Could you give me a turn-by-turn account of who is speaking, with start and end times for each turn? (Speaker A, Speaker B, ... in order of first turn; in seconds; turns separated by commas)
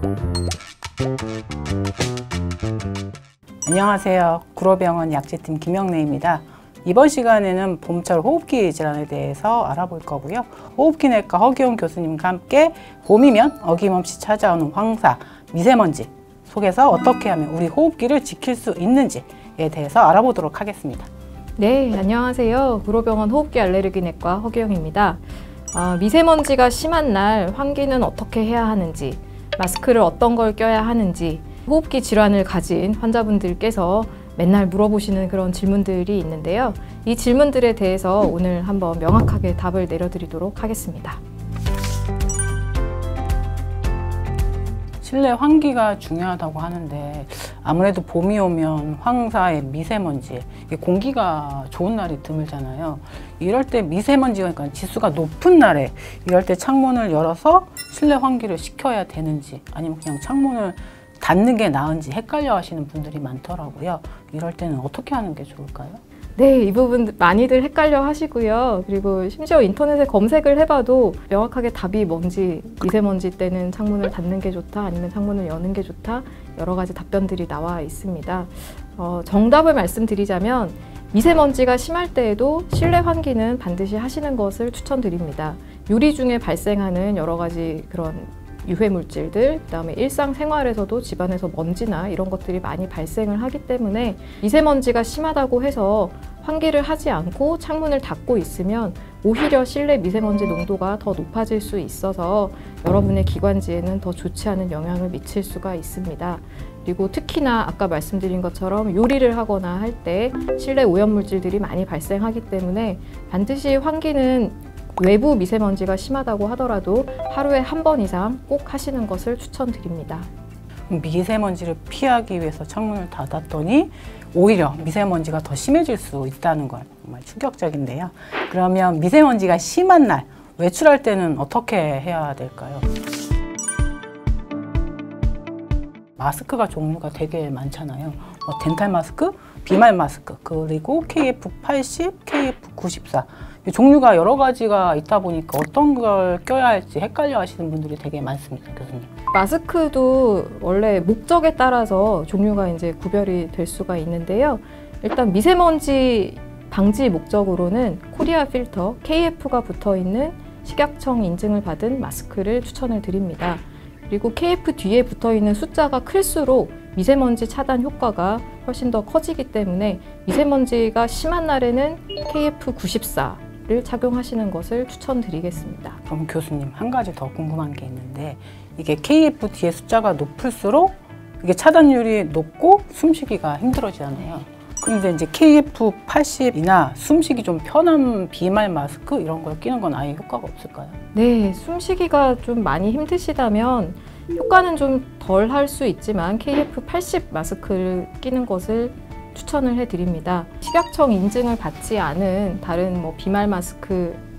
Speaker A: 3.6-21.1, Speaker B: 21.6-41.2, Speaker A: 45.0-66.0, Speaker B: 66.4-120.3, Speaker A: 120.9-132.9, Speaker A: 136.2-149.1, Speaker B: 149.3-176.0, Speaker A: 176.1-191.0, Speaker B: 191.1-204.2